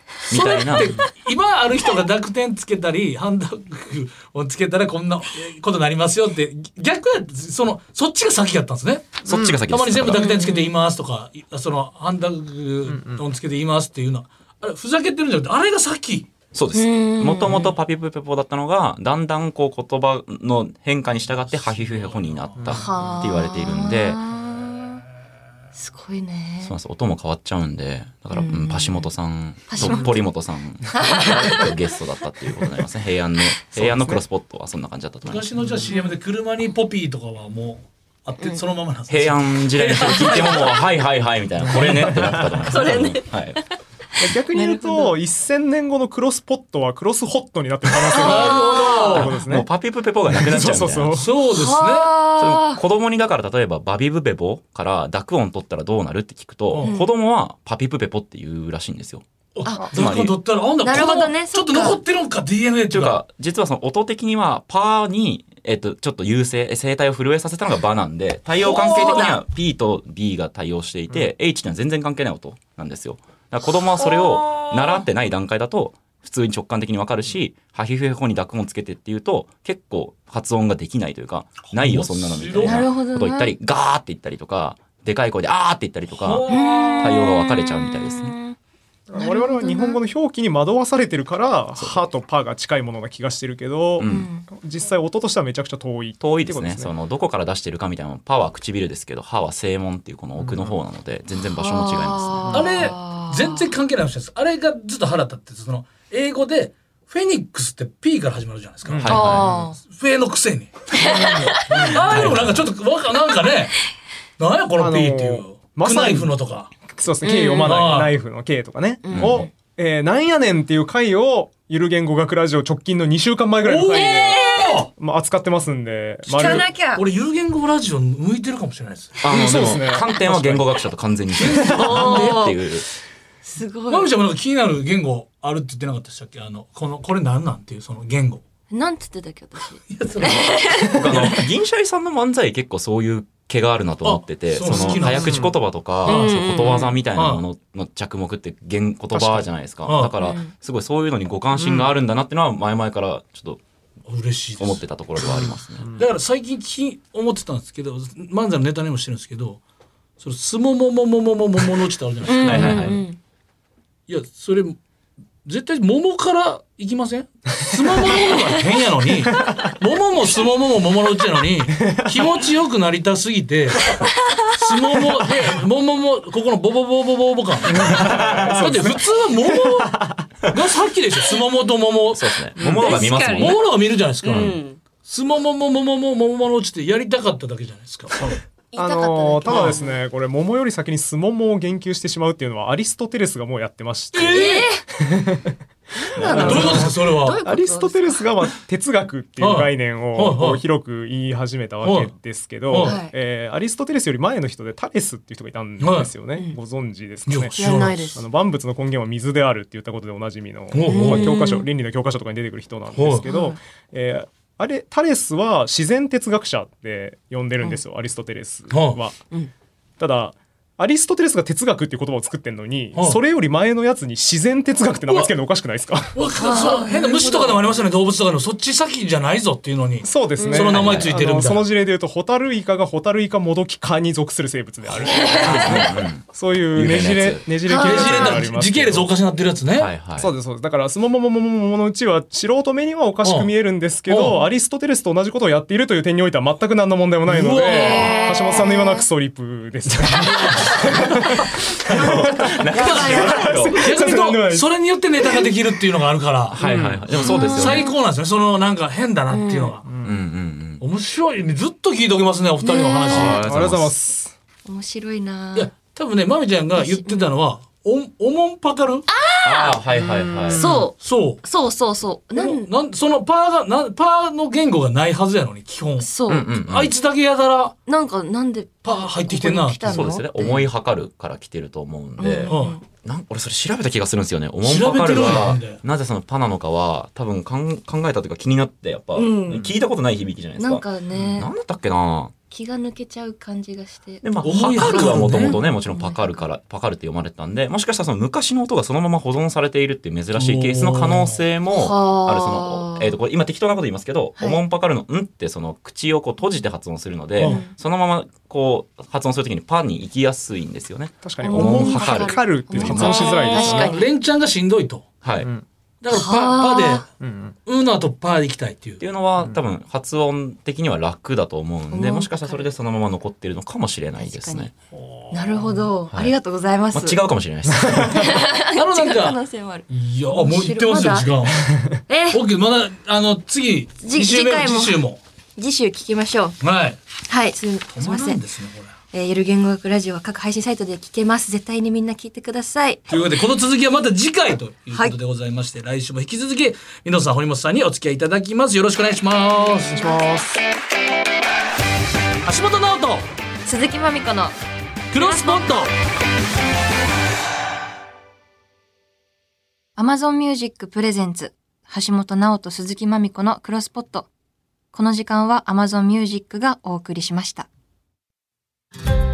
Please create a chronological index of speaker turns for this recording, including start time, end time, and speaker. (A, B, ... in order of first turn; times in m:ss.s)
0:00.3-0:01.0 A
0:00.3-0:16.3 B
0:09.2-0:10.3 A
0:09.3-0:09.6 C
0:10.1-0:10.8 D
0:12.9-0:13.2 C
0:16.5-0:24.2 A
0:16.7-0:17.7 D
0:21.5-0:22.6 B
0:22.6-0:23.0 C
0:22.7-0:25.0 D
0:25.7-0:26.7 D
0:26.6-0:35.5 A
0:28.3-0:29.1 D
0:29.7-0:30.2 D
0:30.9-0:31.7 D
0:33.8-0:34.2 C
0:35.2-0:40.8 B
0:35.9-0:36.2 D
0:39.1-0:43.6 A
0:40.3-0:40.6 D
0:41.6-0:42.4 B
0:42.1-0:42.7 C
0:42.6-0:43.7 D
0:44.2-0:49.7 C
0:44.5-0:45.2 D
0:48.1-0:49.3 D
0:48.1-0:49.3 B
0:49.1-0:51.2 A
0:50.3-0:51.3 C
0:51.1-0:52.2 B
0:51.4-0:52.8 D
0:52.4-0:59.2 A
0:56.8-0:57.1 D
0:59.5-1:03.2 B
0:59.6-0:59.9 D
0:59.9-1:00.4 A
1:00.8-1:02.0 D
1:02.9-1:28.3 A
1:08.6-1:09.4 D
1:14.2-1:14.7 D
1:21.7-1:22.8 B
1:22.6-1:23.5 D
1:26.1-1:27.1 B
1:26.5-1:28.6 D
1:29.1-1:36.9 C
1:29.1-1:30.0 D
1:34.0-1:34.3 A
1:34.0-1:34.5 D
1:36.2-1:42.6 A
1:40.4-1:40.7 C
1:41.5-1:43.7 D
1:42.5-1:50.8 B
1:48.8-1:49.6 C
1:49.0-1:49.5 A
1:49.0-1:49.8 D
1:50.9-1:52.0 D
1:51.0-1:52.6 C
1:51.7-1:52.6 A
1:51.7-1:53.8 B
1:54.4-1:56.7 B
1:54.8-1:56.3 C
1:56.8-2:06.7 C
1:57.2-1:57.8 D
1:57.6-1:58.1 B
1:59.0-1:59.5 D
1:59.1-1:59.4 A
2:03.6-2:04.9 B
2:03.9-2:04.8 D
2:06.3-2:07.0 D
2:06.4-2:09.2 B
2:09.2-2:12.9 A
2:09.2-2:10.8 C
2:11.4-2:12.5 B
2:11.7-2:12.6 D
2:13.4-2:14.1 D
2:13.9-2:18.4 B
2:18.7-2:21.4 D
2:19.8-2:21.4 B
2:20.3-2:33.6 A
2:24.0-2:25.5 B
2:24.7-2:25.5 C
2:26.0-2:26.9 D
2:26.0-2:26.4 B
2:27.1-2:27.4 B
2:29.1-2:29.5 C
2:29.8-2:30.1 B
2:30.2-2:30.5 D
2:31.5-2:31.9 C
2:34.1-2:39.6 B
2:34.6-2:35.9 A
2:40.2-2:42.9 B
2:42.3-2:43.2 D
2:42.4-2:43.0 A
2:44.1-2:44.8 B
2:45.4-2:53.9 B
2:47.7-2:48.1 C
2:48.1-2:48.4 D
2:51.8-2:52.2 C
2:54.5-3:08.4 B
2:57.7-3:00.3 C
2:57.8-2:58.9 A
3:02.1-3:03.6 A
3:02.6-3:02.9 C
3:02.6-3:03.6 D
3:04.2-3:04.8 D
3:08.7-3:10.0 D
3:08.8-3:15.6 C
3:09.5-3:09.8 B
3:14.1-3:14.7 B
3:14.3-3:14.8 D
3:16.0-3:18.3 D
3:16.1-3:39.2 C
3:16.2-3:16.9 A
3:16.3-3:17.4 B
3:19.4-3:20.6 B
3:21.8-3:22.1 B
3:22.7-3:23.0 B
3:22.8-3:23.1 D
3:25.8-3:26.1 B
3:27.3-3:28.2 B
3:27.6-3:28.2 D
3:30.7-3:31.4 B
3:30.8-3:31.7 D
3:32.9-3:33.2 B
3:33.3-3:33.6 D
3:38.7-3:39.0 B
3:40.0-3:46.4 C
3:42.9-3:43.2 B
3:46.1-3:51.7 B
3:46.4-3:47.7 D
3:50.0-3:59.1 C
3:50.4-3:50.8 D
3:50.8-3:51.1 A
3:55.0-3:55.9 D
3:55.3-3:57.5 A
3:57.6-3:58.4 D
3:57.7-3:59.9 B
3:59.7-4:00.3 A
4:00.2-4:14.7 C
4:03.2-4:03.5 B
4:04.1-4:04.4 B
4:07.2-4:08.1 B
4:07.5-4:09.0 D
4:09.9-4:10.9 A
4:10.2-4:11.2 B
4:11.8-4:16.6 B
4:11.9-4:13.9 A
4:16.5-4:17.9 A
4:16.6-4:17.2 C
4:17.1-4:19.8 B
4:17.1-4:18.0 D
4:19.3-4:19.8 D
4:19.8-4:20.2 C
4:20.0-4:20.8 A
4:20.8-4:23.4 B
4:22.6-4:23.4 D
4:23.1-4:23.9 A
4:23.4-4:24.3 C
4:24.6-4:25.7 D
4:25.5-4:29.0 B
4:26.8-4:27.3 D
4:29.1-4:29.8 D
4:29.4-4:30.7 A
4:30.0-4:30.8 C
4:30.5-4:32.7 D
4:31.0-4:31.4 B
4:32.3-4:37.7 B
4:36.0-4:36.5 D
4:36.3-4:36.9 A
4:37.8-4:40.7 D
4:38.8-4:40.1 B
4:39.8-4:52.3 A
4:42.2-4:42.8 D
4:42.5-4:42.8 B
4:44.6-4:45.8 B
4:49.1-4:49.7 D
4:50.6-4:51.5 D
4:52.5-4:56.5 D
4:54.2-5:13.4 A
4:54.4-4:55.6 B
5:00.4-5:01.4 B
5:01.7-5:03.1 D
5:07.4-5:07.6 B
5:07.4-5:07.7 D
5:11.2-5:13.9 C
5:11.4-5:14.1 D
5:12.9-5:15.0 B
5:15.2-5:15.5 A
5:16.0-5:17.1 B
5:16.1-5:17.1 D
5:17.2-5:17.6 C
5:17.6-5:19.0 B
5:19.0-5:24.7 A
5:21.9-5:22.7 D
5:24.2-5:24.7 D
5:24.9-5:25.9 B
5:25.3-5:27.2 D
5:26.9-5:28.4 A
5:27.7-5:28.2 C
5:28.0-5:31.3 D
5:28.7-5:31.7 B
5:31.6-5:32.0 C
5:32.1-5:32.4 D
5:32.3-5:35.2 B
5:34.0-5:35.0 D
5:35.6-5:36.6 D
5:36.6-5:37.0 B
5:37.3-5:38.4 D
5:37.9-5:38.9 B
5:39.1-5:43.1 D
5:43.1-5:50.2 B
5:49.9-5:50.2 D
5:50.0-5:50.6 C
5:52.4-5:53.2 B
5:53.6-5:54.6 D
5:55.1-5:55.9 B
5:55.1-5:55.8 D
6:00.0-6:04.3 D
6:04.9-6:07.7 D